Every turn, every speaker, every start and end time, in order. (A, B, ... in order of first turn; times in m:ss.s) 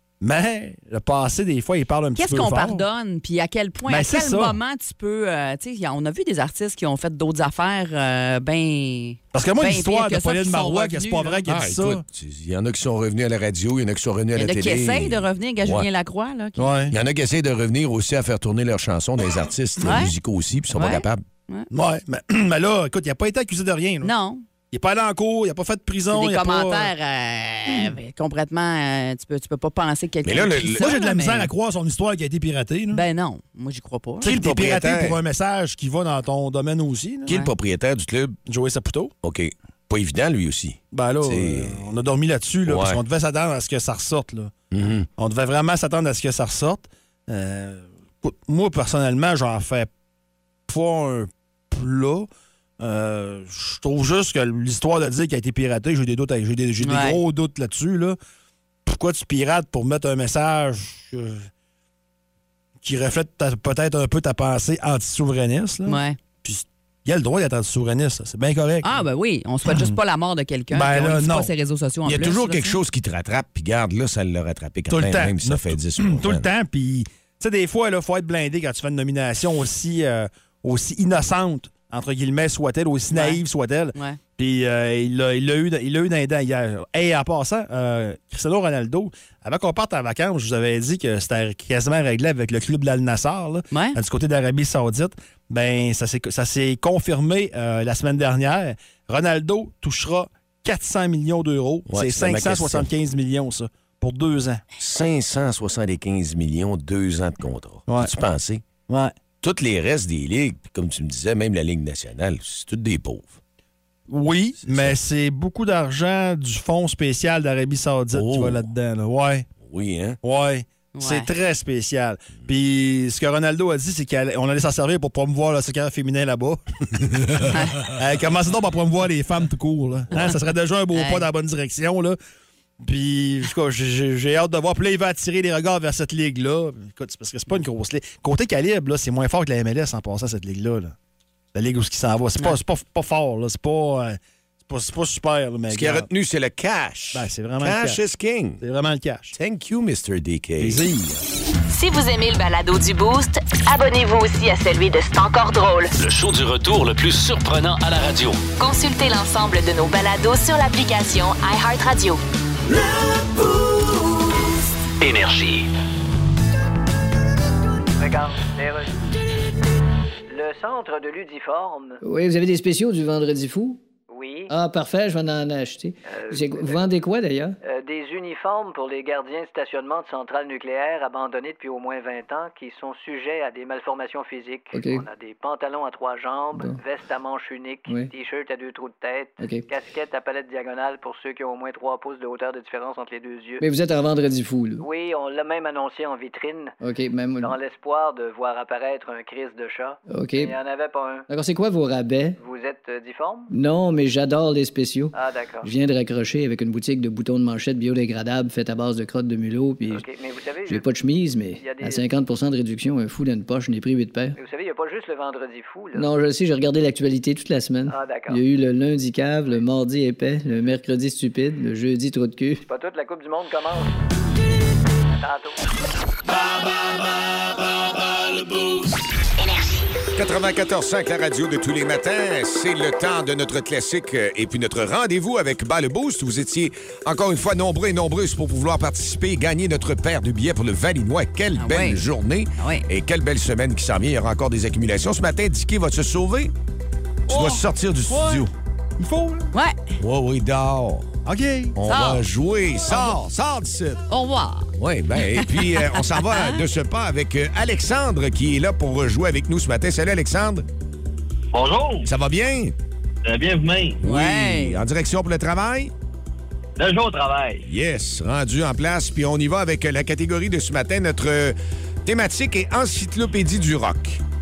0:00.2-0:02.9 A
0:02.2-0:11.4 B
0:03.9-0:04.6 A
0:09.3-0:12.0 A
0:11.5-0:15.9 C
0:14.4-0:16.7 B
0:16.6-0:17.0 A
0:16.9-0:21.2 C
0:19.8-0:20.1 B
0:20.7-0:21.7 B
0:21.7-0:24.1 A
0:24.0-0:24.4 B
0:24.7-0:26.9 A
0:26.1-0:31.5 B
0:27.7-0:27.9 A
0:30.2-0:30.9 C
0:30.8-0:33.0 A
0:32.9-0:34.3 B
0:34.2-0:37.3 A
0:34.2-0:35.2 C
0:37.3-0:38.4 C
0:38.5-0:39.1 A
0:39.2-0:41.8 C
0:40.9-0:44.5 A
0:42.6-0:43.0 C
0:44.7-0:45.1 C
0:45.2-0:49.9 A
0:50.7-0:52.3 A
0:52.8-0:58.2 A
0:56.8-0:57.2 B
0:58.8-1:01.5 A
1:02.8-1:08.9 A
1:05.9-1:06.2 B
1:08.8-1:12.8 B
1:09.6-1:10.0 A
1:10.7-1:11.5 A
1:12.0-1:16.5 C
1:14.9-1:44.6 A
1:23.1-1:23.4 B
1:33.7-1:34.0 B
1:41.9-1:42.9 C
1:44.8-1:48.6 C
1:48.9-1:49.1 A
1:49.4-1:53.4 C
1:54.1-1:59.5 A
1:54.6-1:54.9 C
1:58.1-1:58.6 C
1:59.6-2:00.2 C
2:00.2-2:12.2 A
2:00.9-2:01.3 B
2:07.5-2:07.8 B
2:10.9-2:11.3 B
2:12.8-2:20.9 A
2:21.5-2:26.1 A
2:25.7-2:28.6 C
2:27.1-2:28.0 A
2:28.6-2:29.4 A
2:29.4-2:30.8 C
2:30.6-2:31.2 A
2:31.7-2:35.9 D
2:36.0-2:38.4 E
2:38.6-2:42.2 D
2:45.0-2:45.7 E
2:48.0-2:48.9 F
2:50.3-2:52.0 F
2:52.0-2:53.8 G
2:54.1-2:54.5 F
2:54.5-2:57.6 G
2:56.1-2:56.8 F
2:57.6-3:13.6 F
3:04.7-3:05.0 G
3:09.4-3:09.7 G
3:13.6-3:14.9 G
3:14.8-3:16.7 F
3:16.8-3:17.6 G
3:17.4-3:21.3 F
3:20.1-3:20.5 G
3:21.3-3:22.4 G
3:22.4-3:23.5 F
3:23.5-3:30.0 G
3:25.1-3:25.7 F
3:29.9-3:30.9 F
3:30.7-3:34.4 G
3:31.6-3:32.1 F
3:34.4-3:36.1 F
3:35.9-3:42.6 G
3:37.9-3:38.4 F
3:42.6-3:43.9 F
3:45.2-3:45.6 F
3:49.4-3:49.9 D
3:50.1-4:06.5 C
4:01.5-4:02.0 B
4:02.6-4:02.8 B
4:07.3-4:08.4 A
4:07.3-4:08.5 C
4:09.0-4:09.5 A
4:09.5-4:09.8 B
4:10.0-4:11.1 C
4:11.2-4:11.8 A
4:11.8-4:14.0 C
4:11.9-4:12.2 B
4:14.1-4:16.6 B
4:14.8-4:20.6 C
4:21.5-4:22.1 H
4:22.0-4:22.7 C
4:23.2-4:24.0 H
4:24.0-4:25.9 C
4:24.0-4:24.8 B
4:26.8-4:27.6 H
4:27.6-4:34.2 C